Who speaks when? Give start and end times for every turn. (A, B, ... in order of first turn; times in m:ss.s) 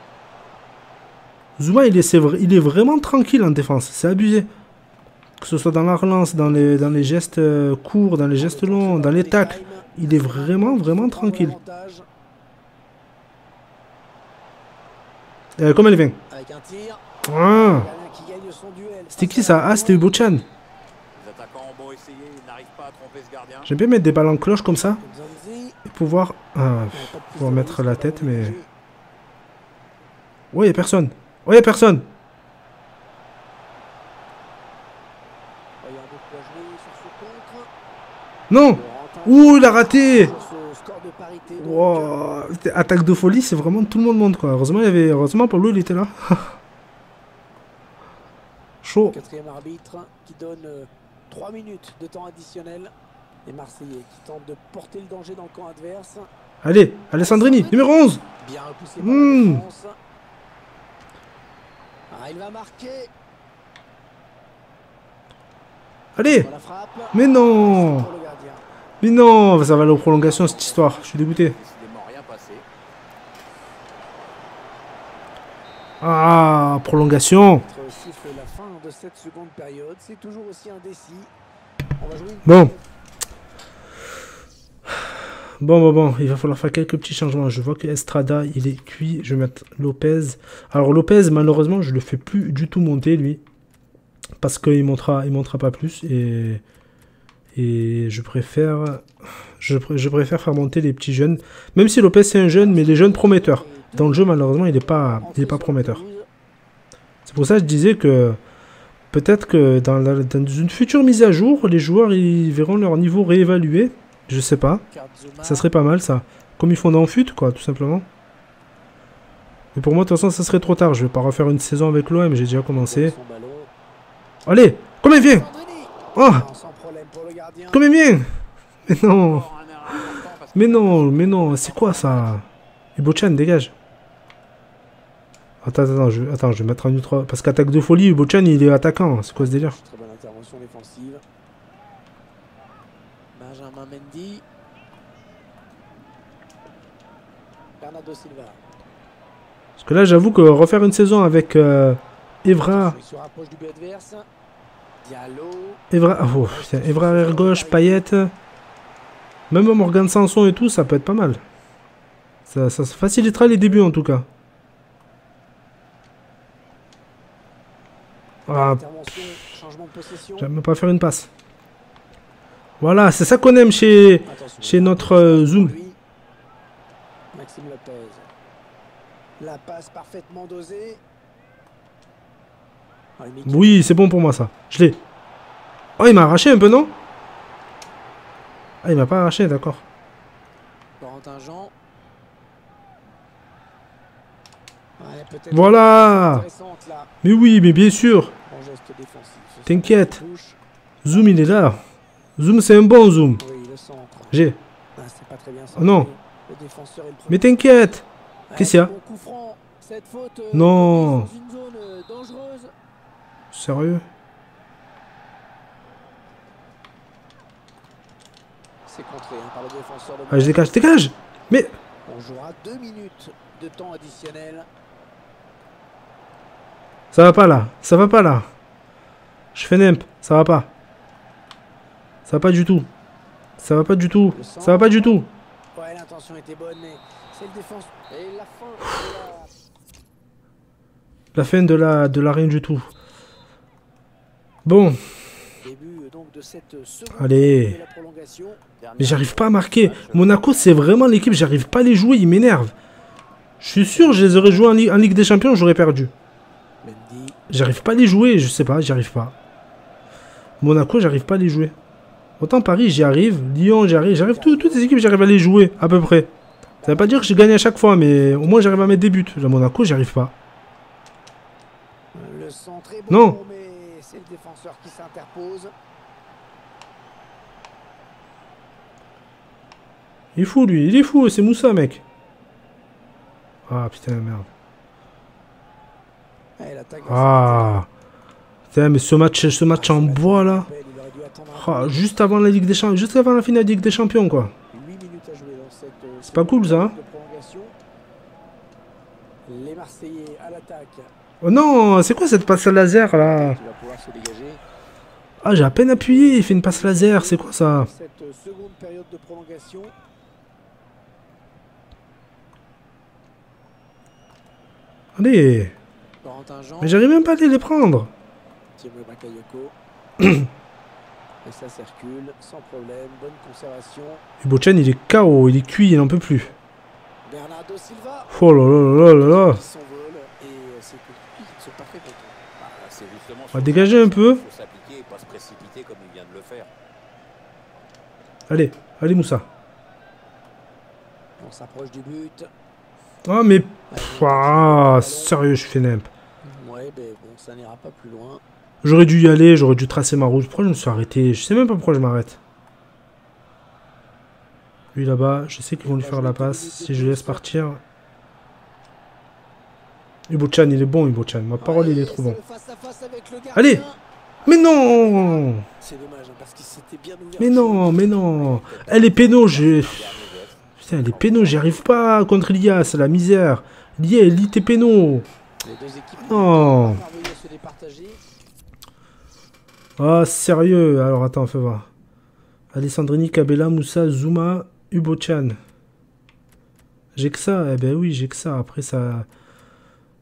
0:01.6-0:04.5 A
0:05.4-0:11.6 A
0:06.4-0:07.1 B
0:08.4-0:12.0 B
0:15.6-0:16.2 A
0:16.3-0:20.1 B
0:17.2-0:17.9 A
0:19.1-0:20.4 A
0:21.1-0:23.7 C
0:23.6-0:25.0 A
0:25.0-0:25.8 B
0:25.8-0:28.6 A
0:26.9-0:28.7 B
0:30.5-0:32.1 A
0:35.8-0:37.7 B
0:38.5-0:40.3 A
0:38.6-0:42.1 B
0:41.6-0:46.6 A
0:48.8-0:49.2 A
0:49.1-0:52.9 B
0:53.4-0:56.3 B
0:56.6-0:58.2 A
0:57.2-1:00.0 B
0:59.0-0:59.6 A
1:02.1-1:03.1 B
1:06.2-1:06.5 A
1:06.2-1:08.6 B
1:07.1-1:08.1 A
1:09.0-1:11.6 A
1:09.8-1:12.6 C
1:16.0-1:17.6 A
1:17.6-1:21.3 B
1:22.0-1:22.8 B
1:22.4-1:22.7 A
1:25.0-1:33.4 A
1:34.4-1:36.6 A
1:37.5-1:39.0 A
1:39.6-1:46.0 A
1:42.5-1:46.3 B
1:47.2-1:48.4 A
1:49.1-1:54.8 A
1:54.9-1:55.7 B
1:55.4-1:58.1 A
1:59.7-2:03.1 A
2:02.7-2:03.7 B
2:04.4-2:05.5 A
2:05.1-2:07.8 B
2:06.1-2:06.4 A
2:07.7-2:08.3 A
2:08.9-2:13.7 A
2:09.1-2:12.3 C
2:11.7-2:12.0 B
2:15.6-2:19.7 A
2:19.3-2:21.2 B
2:23.3-2:24.4 B
2:27.8-2:28.6 B
2:29.8-2:33.0 A
2:32.4-2:34.3 B
2:35.0-2:38.1 B
2:35.9-2:38.3 A
2:39.5-2:41.4 A
2:42.5-2:44.2 A
2:43.2-2:43.9 B
2:48.5-2:48.8 A
2:48.5-2:50.5 B
2:50.4-2:51.3 A
2:52.8-2:55.7 A
2:54.2-2:56.0 B
2:57.3-2:58.3 B
2:59.4-3:01.0 B
3:03.2-3:03.9 B
3:03.4-3:05.0 A
3:06.0-3:06.9 A
3:08.8-3:09.8 A
3:11.0-3:11.7 B
3:15.0-3:17.1 B
3:15.5-3:16.4 A
3:17.2-3:18.3 A
3:18.4-3:20.6 B
3:19.7-3:20.2 A
3:21.0-3:21.8 A
3:21.1-3:21.7 B
3:22.4-3:23.4 A
3:23.4-3:24.4 B
3:24.3-3:24.6 A
3:24.9-3:27.5 B
3:25.8-3:26.1 A
3:27.3-3:28.0 A
3:28.5-3:32.7 B
3:28.6-3:28.9 A
3:30.5-3:31.3 A
3:33.5-3:34.0 A
3:38.8-3:40.9 B
3:40.3-3:41.7 A
3:42.0-3:44.7 B
3:47.1-3:48.5 A
3:49.5-3:50.7 A
3:52.2-3:52.9 A
3:53.6-3:55.3 A
3:54.3-3:59.5 B
4:01.3-4:02.9 A
4:04.6-4:05.2 A
4:05.6-4:08.6 B
4:07.2-4:07.8 A
4:08.8-4:11.2 C
4:09.0-4:12.7 A
4:13.6-4:16.1 A
4:13.9-4:14.7 B
4:16.8-4:17.4 B
4:17.5-4:19.3 A
4:20.6-4:21.7 A
4:22.4-4:26.3 A
4:24.3-4:24.9 B
4:26.8-4:29.1 B
4:26.8-4:30.3 A
4:32.1-4:35.7 B
4:33.1-4:33.4 A
4:40.3-4:42.0 A
4:43.7-4:44.5 A
4:46.6-4:47.8 B
4:47.1-4:47.9 A
4:48.7-4:50.7 A
4:49.7-4:52.5 B
4:51.5-4:54.5 A
4:54.7-4:57.8 B
4:56.2-4:56.9 A
4:59.4-5:01.1 B
5:01.4-5:03.6 A
5:03.1-5:04.6 B
5:05.4-5:07.9 A
5:05.9-5:09.9 B
5:15.2-5:15.7 A
5:16.2-5:17.4 B
5:16.8-5:18.1 A
5:18.7-5:19.8 B
5:20.2-5:20.5 A
5:21.4-5:24.2 B
5:24.4-5:26.5 A
5:27.2-5:32.4 B
5:28.3-5:29.6 A
5:32.6-5:36.7 C
5:33.5-5:34.4 A
5:38.5-5:39.4 A
5:41.4-5:42.5 B
5:43.2-5:46.1 A
5:43.9-5:45.3 B
5:46.4-5:48.4 B
5:48.8-5:52.4 A
5:54.9-5:57.8 A
5:55.8-5:57.5 B
6:00.3-6:02.4 A
6:01.6-6:08.6 B
6:03.5-6:03.8 A
6:04.4-6:05.6 A
6:07.4-6:10.2 A
6:08.4-6:11.6 C
6:10.8-6:15.2 A
6:11.2-6:11.7 B
6:15.6-6:18.2 B
6:16.2-6:17.0 A
6:20.0-6:21.9 A
6:22.7-6:25.6 A
6:27.1-6:29.3 A